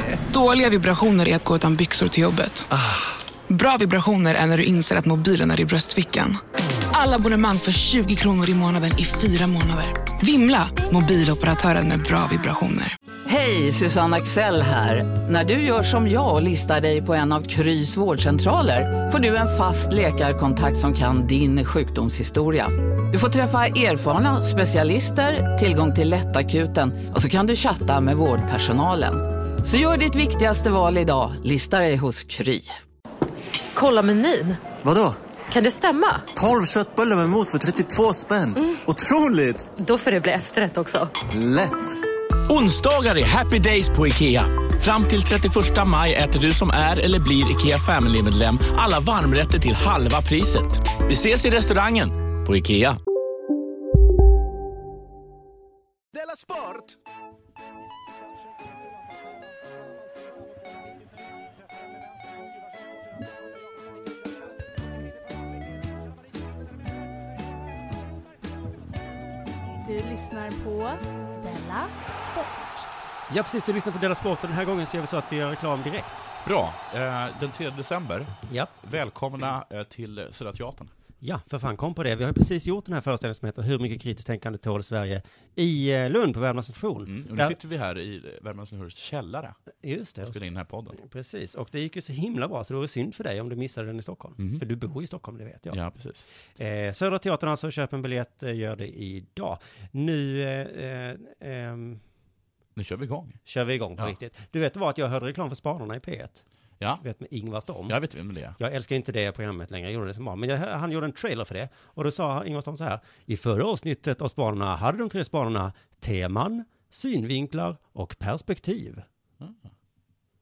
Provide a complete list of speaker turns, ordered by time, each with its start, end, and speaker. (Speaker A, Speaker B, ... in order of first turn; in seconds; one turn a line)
Speaker A: 0.3-2.7
Speaker A: 3.5-6.4
Speaker A: 6.9-12.9
Speaker B: 13.2-32.8
Speaker C: 33.7-34.6
Speaker D: 34.8-35.2
Speaker C: 35.5-36.3
Speaker D: 36.3-39.7
Speaker C: 39.8-41.1
Speaker D: 41.3-41.9
Speaker E: 42.5-53.0
Speaker F: 69.8-72.8
Speaker G: 73.3-76.2
Speaker H: 76.4-80.9
Speaker G: 78.5-78.7
Speaker G: 81.2-87.5
Speaker H: 87.0-89.5
Speaker G: 89.8-90.4
Speaker H: 90.2-90.9
Speaker G: 90.9-95.8
Speaker H: 95.7-96.2
Speaker G: 96.6-102.0
Speaker H: 102.8-103.4
Speaker G: 103.4-106.4
Speaker G: 107.0-107.9
Speaker H: 107.9-108.6
Speaker G: 108.6-119.0
Speaker H: 119.4-119.7